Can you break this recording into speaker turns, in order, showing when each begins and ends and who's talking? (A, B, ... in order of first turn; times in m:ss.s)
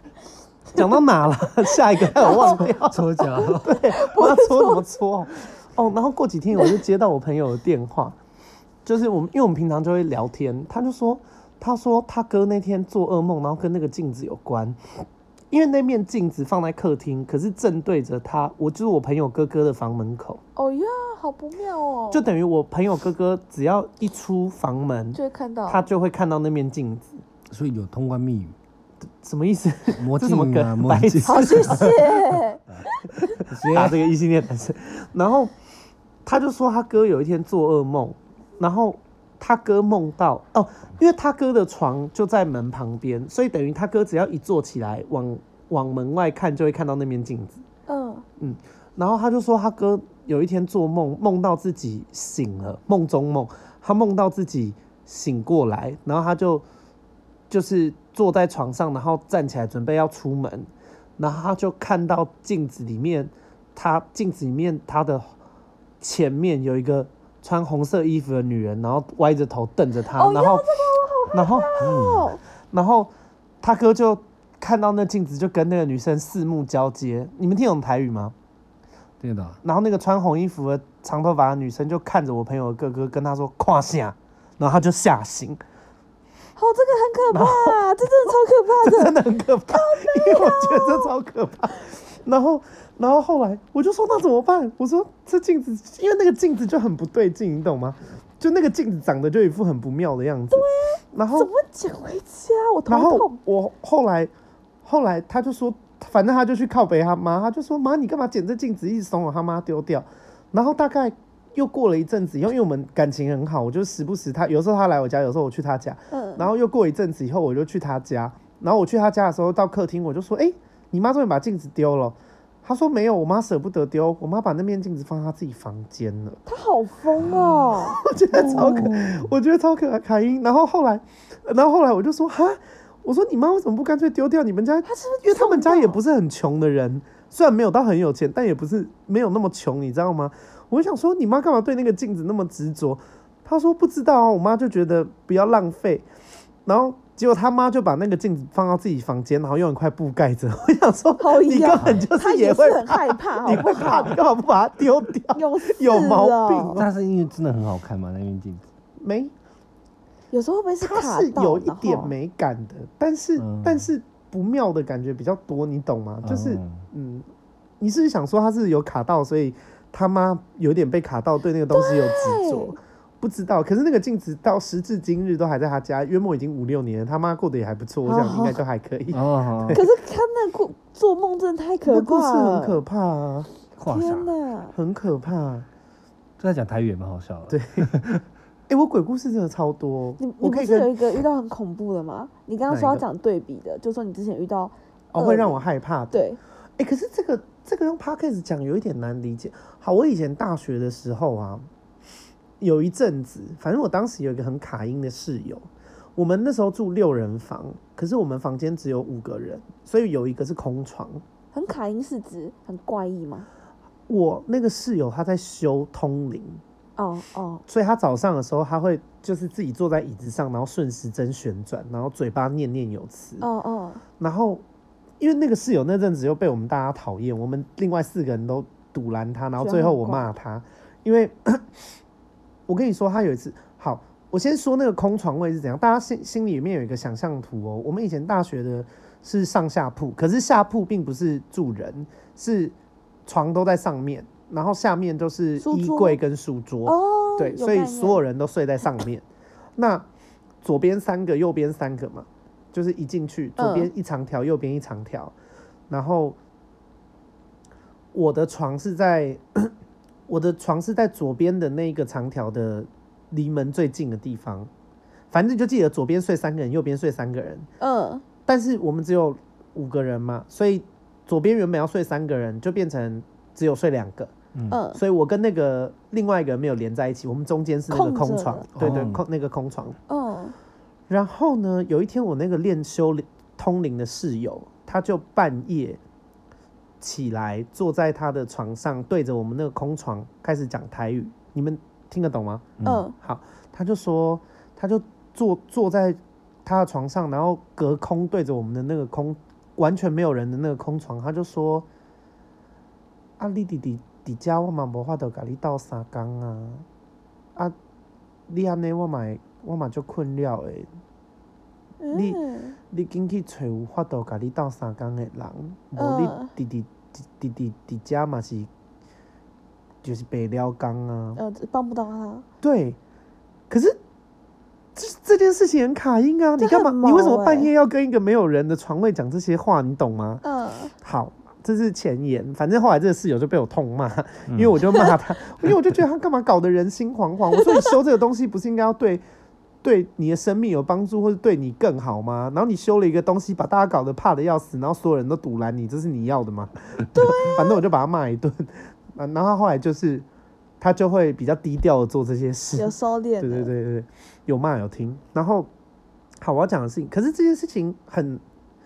0:00.7-0:08.2 A
0:02.1-0:02.7 B
0:02.5-0:03.8 C
0:03.2-0:04.9 B
0:08.8-0:20.4 A
0:20.6-0:22.3 B
0:22.1-0:27.2 A
0:25.1-0:25.9 B
0:27.5-0:28.6 C
0:29.2-0:32.2 A
0:30.0-0:32.1 C
0:31.2-0:33.4 B
0:33.2-0:35.5 A
0:33.4-0:34.0 C
0:36.2-0:47.6 A
0:47.9-0:48.2 B
0:48.4-0:56.6 A
0:57.5-1:05.3 A
1:06.0-1:10.7 A
1:10.2-1:12.4 B
1:11.3-1:11.8 A
1:11.8-1:12.3 C
1:12.7-1:13.1 A
1:13.6-1:18.3 A
1:19.2-1:19.6 C
1:19.6-1:25.6 A
1:26.6-1:31.1 B
1:27.3-1:27.8 A
1:28.8-1:41.5 A
1:40.5-1:43.4 B
1:42.9-1:44.3 A
1:44.8-2:06.4 A
1:56.1-1:56.5 B
2:06.5-2:08.0 B
2:07.2-2:07.6 C
2:07.9-2:26.1 A
2:08.3-2:09.3 C
2:14.8-2:16.0 B
2:26.6-2:36.8 A
2:31.2-2:34.2 B
2:35.3-2:36.8 B
2:36.8-2:38.6 C
2:39.0-2:39.3 A
2:40.3-2:42.1 B
2:40.8-2:47.3 A
2:43.4-2:43.9 C
2:46.2-2:46.8 C
2:47.8-2:59.8 A
2:51.7-2:52.8 B
2:58.0-2:58.6 B
2:59.1-2:59.8 C
2:59.7-3:02.8 B
3:01.8-3:03.5 A
3:03.8-3:04.3 C
3:03.8-3:04.7 B
3:04.7-3:05.7 A
3:06.4-3:08.2 C
3:07.5-3:07.9 A
3:08.7-3:10.9 A
3:10.2-3:16.4 B
3:12.7-3:13.0 A
3:15.1-3:16.2 A
3:16.8-3:21.6 A
3:22.6-3:31.2 A
3:31.5-3:33.5 B
3:34.1-3:36.6 A
3:37.0-3:37.6 B
3:37.7-3:43.5 A
3:43.4-3:44.0 B
3:44.2-3:44.6 A
3:45.2-3:52.0 A
3:49.6-3:50.3 B
3:52.7-4:02.7 A
4:03.3-4:09.2 A
4:05.6-4:06.2 B
4:06.8-4:08.2 B
4:09.8-4:10.1 A
4:10.6-4:15.3 A
4:13.6-4:13.9 B
4:15.9-4:16.4 A
4:18.1-4:19.7 A
4:20.3-4:24.7 A
4:25.3-4:27.7 A
4:27.8-4:28.2 B
4:28.4-4:34.3 A
4:34.5-4:34.8 C
4:34.7-4:35.0 B
4:34.9-4:40.0 A
4:37.9-4:38.7 B
4:38.8-4:39.2 C
4:40.1-4:40.5 B
4:41.1-4:46.0 A
4:47.0-5:01.9 A
4:52.8-4:53.1 C
4:52.8-4:53.1 B
5:03.4-5:06.8 A
5:08.5-5:10.9 A
5:12.0-5:12.8 B
5:12.1-5:18.7 A
5:16.0-5:16.5 B
5:20.0-5:21.4 A
5:21.4-5:22.4 B
5:22.6-5:23.0 A
5:23.7-5:24.0 A
5:25.0-5:30.4 A
5:26.6-5:27.7 B
5:30.4-5:30.9 B
5:31.0-5:39.2 A
5:34.5-5:34.8 C
5:39.8-5:50.2 A
5:47.1-5:47.8 B
5:50.8-5:55.7 A
5:52.7-5:53.7 B
5:56.4-5:58.4 A